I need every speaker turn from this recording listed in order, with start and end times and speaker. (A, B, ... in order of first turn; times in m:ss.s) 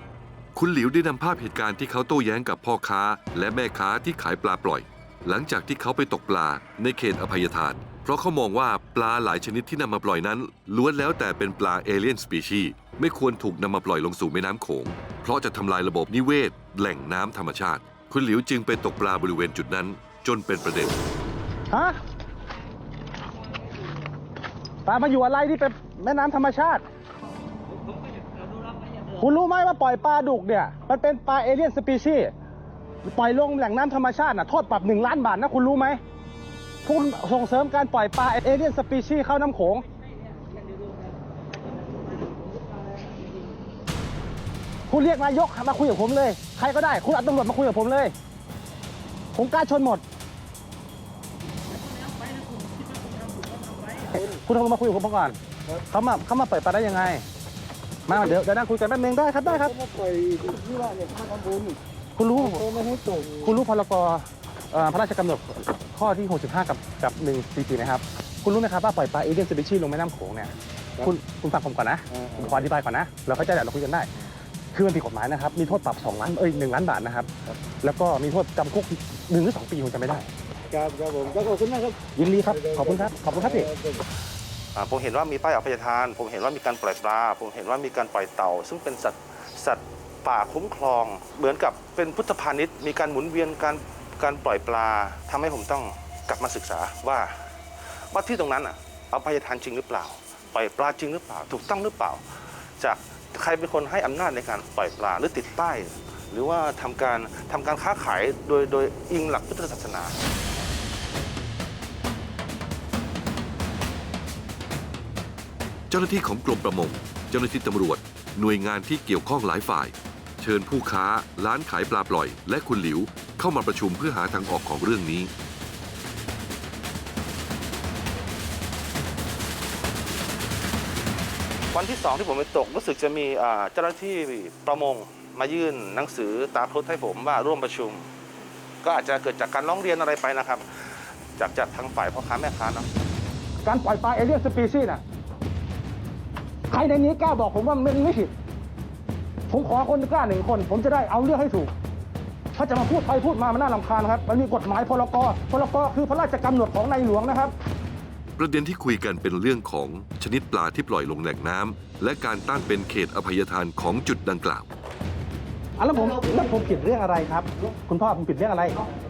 0:00.5-0:21.0 A
0:21.7-0:22.0 B
0:24.8-0:26.8 B
0:29.1-0:32.3 B
0:33.0-0:36.0 B
0:36.8-0:39.8 B
0:44.9-0:48.1 B
0:49.3-0:50.0 B
0:54.0-0:55.4 B
0:55.9-0:57.2 B
0:58.0-0:59.7 B
0:59.9-1:01.8 C
1:02.2-1:14.1 B
1:14.7-1:17.3 B
1:17.8-1:20.3 B
1:20.7-1:22.0 C
1:22.1-1:23.7 B
1:24.7-1:37.3 D
1:38.1-1:42.2 D
1:42.8-1:50.2 D
1:55.9-2:05.3 A
2:11.7-2:18.1 D
2:18.8-2:22.8 D
2:23.6-2:25.0 B
2:26.7-2:28.3 B
2:29.5-2:31.7 B
2:32.6-2:37.5 B
2:38.4-2:44.7 A
2:45.8-2:48.8 B